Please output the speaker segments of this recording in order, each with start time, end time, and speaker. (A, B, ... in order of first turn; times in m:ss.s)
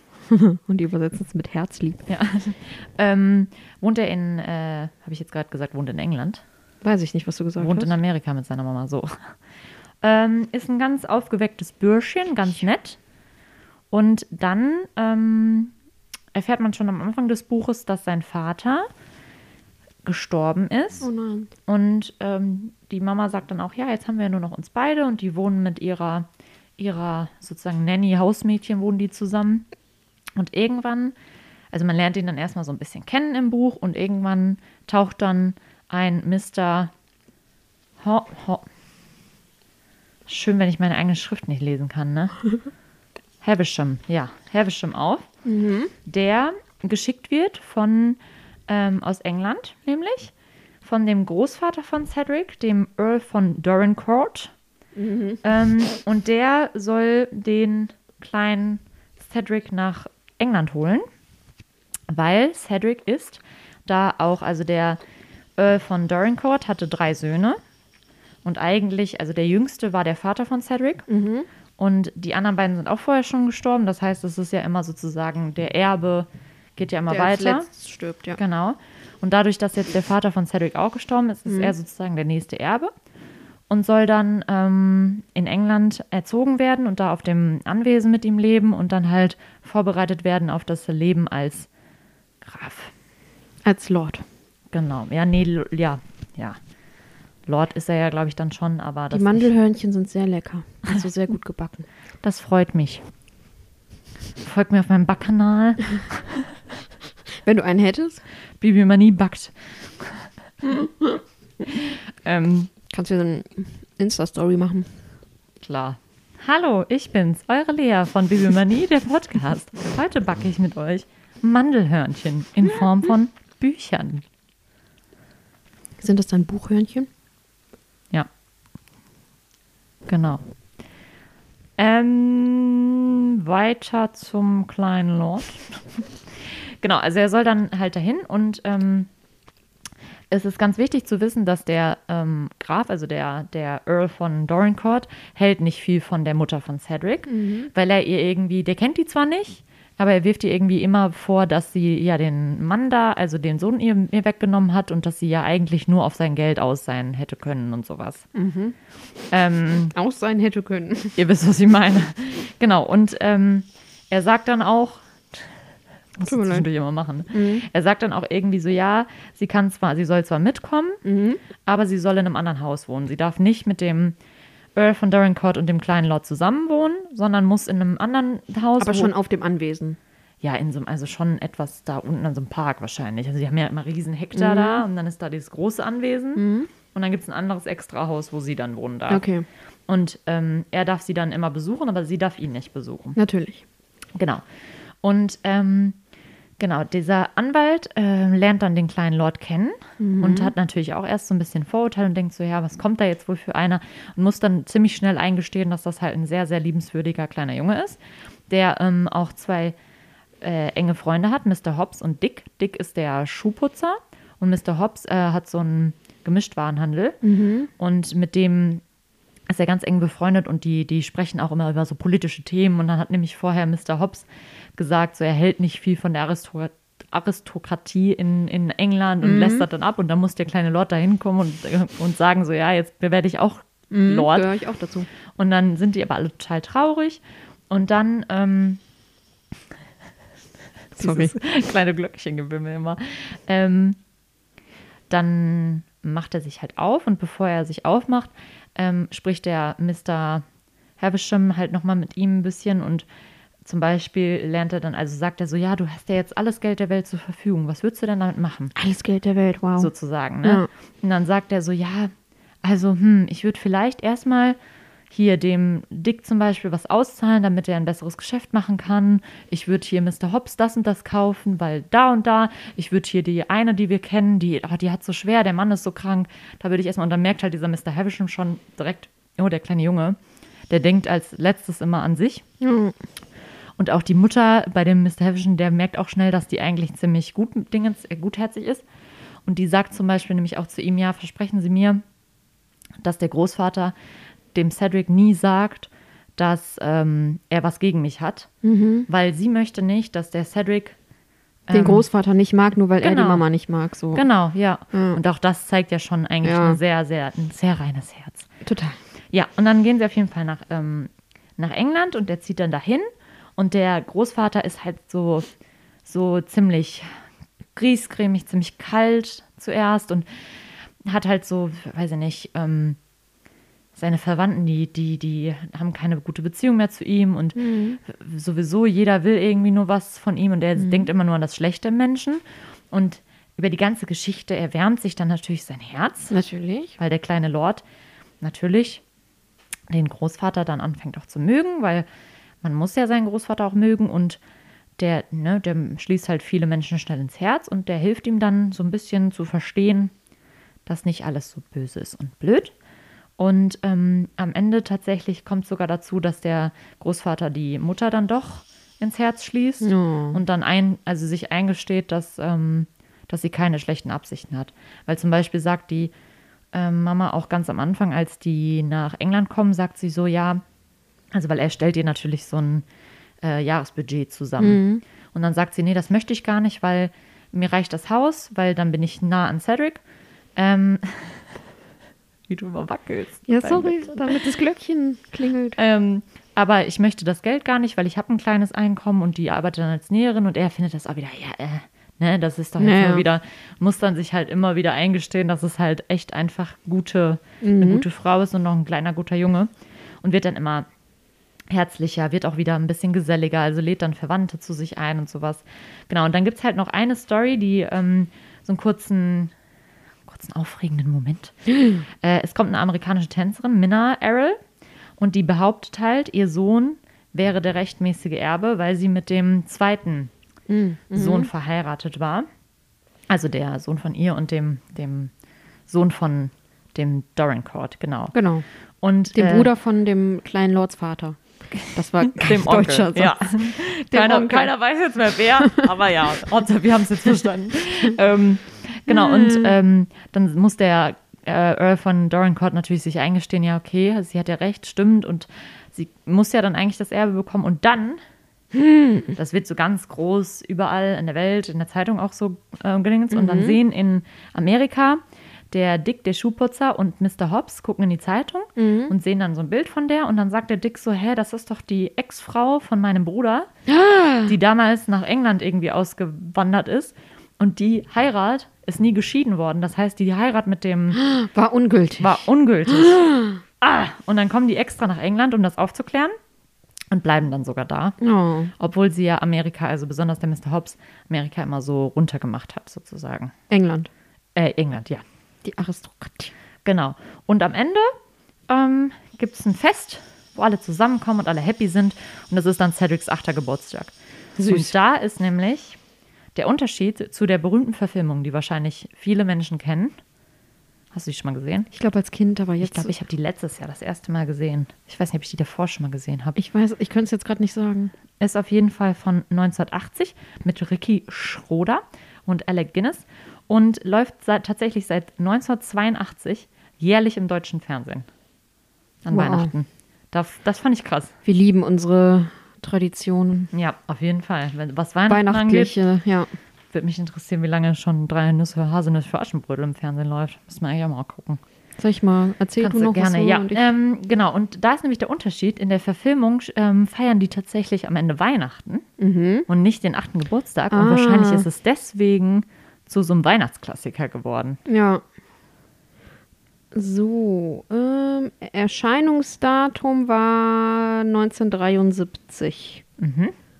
0:00.3-0:02.0 A
0:02.1-0:06.4 B
0:06.8-0:07.9 A
0:07.6-0:09.3 B
0:10.0-0:13.0 B
0:13.9-0:15.7 B
0:16.3-0:18.9 B
0:20.0-0:21.1 B
0:21.0-0:21.5 A
0:21.7-0:29.6 B
0:30.4-0:31.1 B
0:31.7-0:36.9 B
0:38.0-0:38.6 B
0:40.3-0:42.4 B
0:43.4-0:45.3 B
0:45.4-0:45.9 A
0:46.0-0:54.5 B
0:55.0-0:55.4 A
0:55.4-1:01.0 B
1:02.1-1:05.0 B
1:05.6-1:07.6 B
1:08.4-1:11.0 B
1:11.1-1:11.5 A
1:11.8-1:17.7 B
1:17.1-1:18.4 A
1:18.4-1:22.9 B
1:21.5-1:21.7 A
1:23.7-1:31.7 B
1:32.4-1:32.9 B
1:33.6-1:34.2 A
1:34.7-1:36.6 B
1:37.4-1:39.5 B
1:39.1-1:41.9 A
1:42.2-1:43.0 B
1:44.4-1:46.5 B
1:47.4-1:48.2 A
1:48.6-1:50.3 B
1:51.6-1:52.7 B
1:52.9-1:54.9 A
1:55.6-2:04.2 B
2:06.0-2:07.1 A
2:10.1-2:10.4 B
2:11.8-2:19.1 B
2:20.3-2:38.2 B
2:27.3-2:27.7 A
2:38.3-2:38.7 A
2:39.3-2:39.9 B
2:39.9-2:41.2 A
2:41.2-2:45.4 B
2:46.2-2:51.0 B
2:46.2-2:46.7 A
2:47.3-2:47.6 A
2:51.0-2:51.4 A
2:51.6-2:54.2 B
2:54.8-2:59.1 B
2:58.8-3:00.0 A
3:00.4-3:09.2 B
3:04.3-3:04.8 A
3:06.4-3:06.7 A
3:09.1-3:09.4 A
3:09.9-3:13.2 B
3:13.2-3:13.6 A
3:14.1-3:14.4 B
3:15.0-3:16.0 B
3:16.6-3:29.8 B
3:20.0-3:20.5 A
3:30.4-3:37.2 B
3:37.2-3:37.7 A
3:37.8-3:38.8 B
3:39.5-3:54.5 B
3:49.2-3:49.7 A
3:53.9-3:55.1 A
3:55.4-3:58.8 B
4:00.9-4:04.0 B
4:01.0-4:01.3 A
4:05.1-4:10.4 B
4:11.0-4:13.0 B
4:13.6-4:18.7 B
4:18.7-4:19.9 A
4:19.8-4:22.1 B
4:20.4-4:20.7 A
4:22.6-4:24.6 B
4:25.1-4:40.2 B
4:40.7-4:42.4 B
4:42.6-4:42.9 A
4:43.8-4:48.8 B
4:49.4-4:52.0 B
4:53.0-4:53.9 B
4:54.5-4:58.5 B
4:58.6-4:59.1 A
4:59.1-5:01.0 B
5:01.7-5:02.0 B
5:01.7-5:04.2 A
5:03.0-5:03.4 B
5:04.1-5:08.5 B
5:04.9-5:05.2 A
5:06.4-5:06.8 A
5:08.6-5:09.0 A
5:09.3-5:15.5 B
5:16.0-5:17.0 B
5:17.8-5:20.3 B
5:21.0-5:23.0 B
5:23.9-5:36.3 B
5:27.6-5:28.0 A
5:30.8-5:31.1 A
5:36.3-5:36.9 A
5:37.0-5:37.8 B
5:38.4-5:39.0 B
5:39.9-5:42.0 B
5:42.6-5:44.4 B
5:45.0-5:50.1 B
5:50.8-5:52.7 B
5:53.4-6:06.1 B
5:59.8-6:00.4 A
6:06.7-6:10.6 B
6:11.3-6:12.8 B
6:13.4-6:14.8 B
6:14.6-6:15.0 A
6:15.3-6:20.0 B
6:20.6-6:21.6 B
6:22.5-6:24.3 B
6:23.5-6:25.8 A
6:25.8-6:39.7 B
6:32.8-6:33.2 A
6:37.6-6:38.0 A
6:40.2-6:40.9 B
6:41.7-6:49.5 B
6:50.2-6:51.6 B
6:51.8-6:52.0 A
6:52.1-6:54.6 B
6:55.2-7:00.3 B
7:00.7-7:01.5 A
7:01.1-7:02.5 B
7:03.3-7:05.3 B
7:05.9-7:08.3 B
7:08.3-7:08.6 A
7:09.0-7:09.7 B
7:09.3-7:14.7 A
7:12.2-7:28.2 B
7:19.1-7:19.7 A
7:28.7-7:29.4 A
7:29.4-7:43.7 B
7:33.3-7:33.8 A
7:38.8-7:39.1 A
7:43.9-7:44.5 A
7:44.4-7:51.2 B
7:51.1-7:53.6 A
7:52.2-7:53.2 B
7:53.8-7:56.3 B
7:57.1-7:58.2 B
7:58.2-7:58.7 A
7:58.8-8:03.5 B
8:03.7-8:04.1 A
8:04.5-8:05.2 B
8:05.6-8:06.5 A
8:06.8-8:08.1 B
8:08.7-8:14.1 B
8:14.6-8:14.9 A
8:14.7-8:16.0 B
8:16.5-8:20.1 B
8:21.1-8:21.9 B
8:21.9-8:23.2 A
8:22.8-8:26.6 B
8:26.6-8:28.1 A
8:28.4-8:38.2 B
8:39.2-8:41.3 B
8:39.3-8:39.7 A
8:41.4-8:43.7 A
8:43.7-8:46.0 B
8:45.3-8:46.5 A
8:46.9-8:51.6 B
8:52.0-8:53.8 A
8:52.8-8:59.0 B
8:59.2-8:59.7 A
8:59.7-9:04.8 B
9:00.9-9:01.7 A
9:04.8-9:05.2 A
9:06.9-9:13.0 A
9:13.2-9:13.5 B